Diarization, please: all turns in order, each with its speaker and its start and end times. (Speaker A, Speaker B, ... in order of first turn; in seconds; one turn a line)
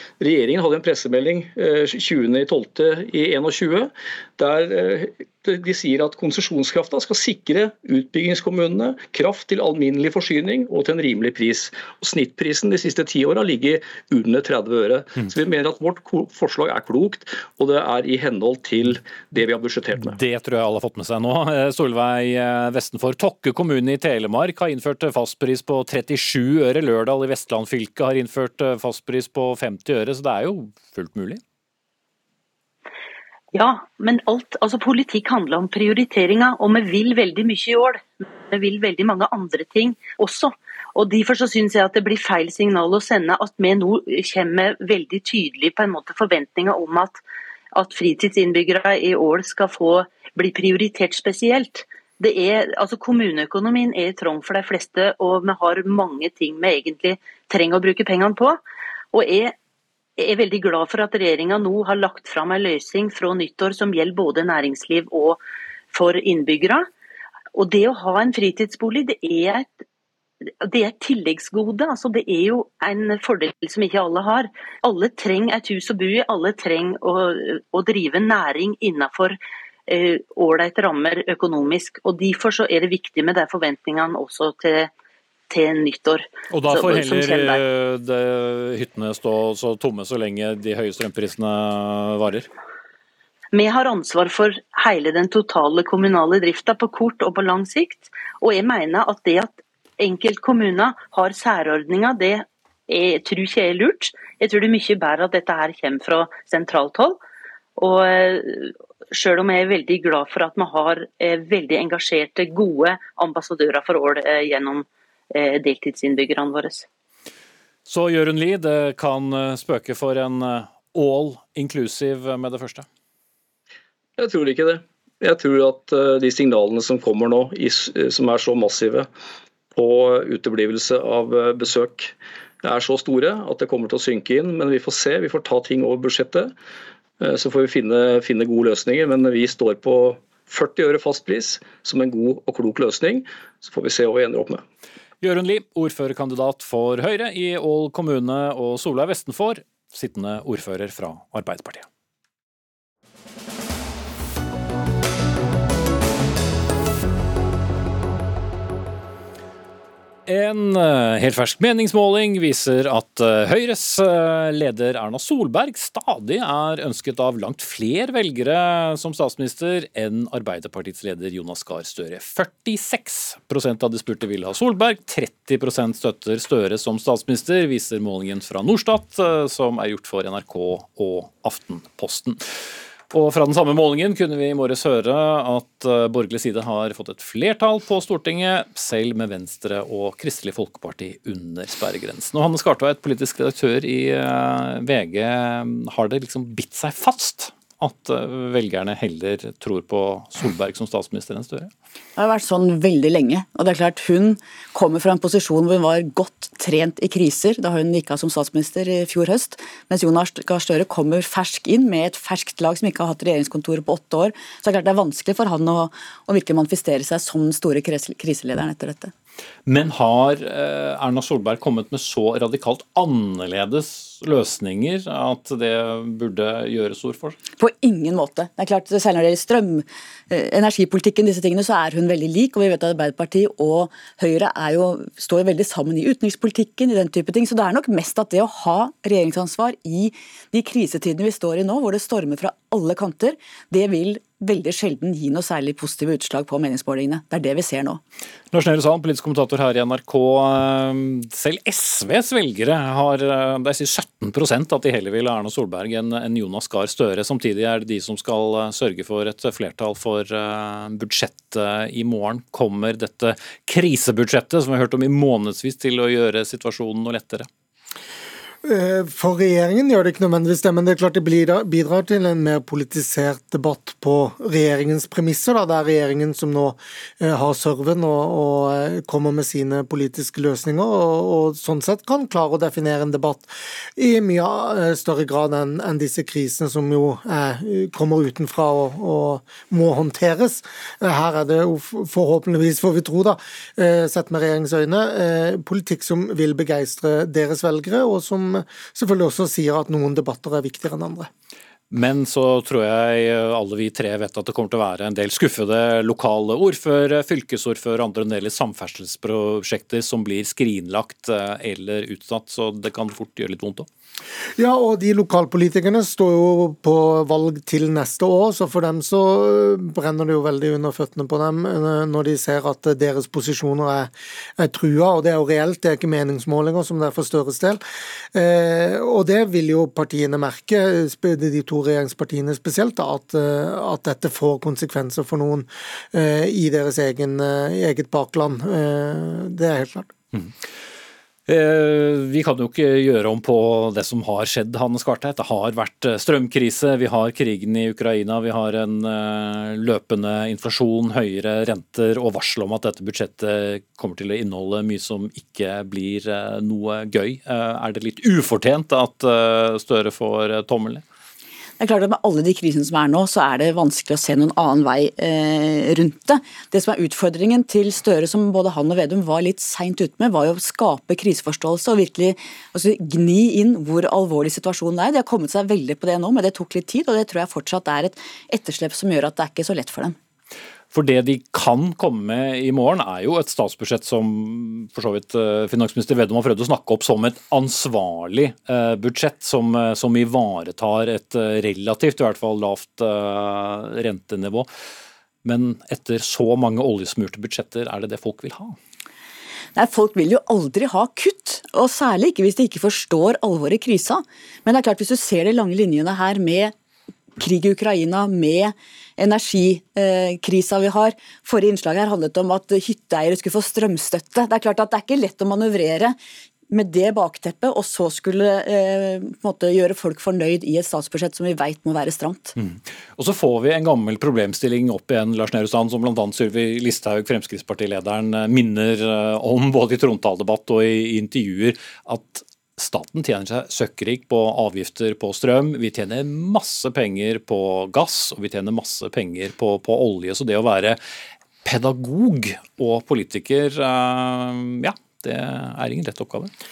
Speaker A: 0.2-20.2
Speaker B: 20.0-31.4
Speaker C: 33.5-47.2
Speaker C: 47.7-58.6
Speaker C: 59.1-59.5
Speaker C: 60.2-65.4
Speaker C: 65.9-66.9
Speaker C: 67.5-69.7
Speaker C: 70.6-84.9
Speaker C: 85.5-87.6
Speaker B: 86.5-92.5
Speaker C: 93.5-107.2
Speaker C: 107.8-116.9
Speaker B: 117.9-122.9
Speaker A: 124.2-129.1
Speaker A: 129.8-136.5
Speaker A: 137.2-144.6
Speaker B: 145.2-151.9
Speaker B: 160.3-182.4
Speaker B: 183.1-201.7
Speaker D: 202.2-219.1
Speaker B: 219.7-227.4
Speaker D: 227.6-248.0
Speaker B: 248.5-267.5
Speaker E: 268.6-301.3
Speaker B: 301.9-313.9
Speaker E: 314.6-327.8
Speaker E: 328.4-340.1
Speaker B: 341.5-361.0
Speaker D: 361.8-380.2
Speaker B: 380.9-394.7
Speaker B: 395.4-398.8
Speaker D: 399.8-406.7
Speaker D: 407.4-416.2
Speaker D: 416.7-422.6
Speaker B: 422.6-441.0
Speaker B: 441.6-446.5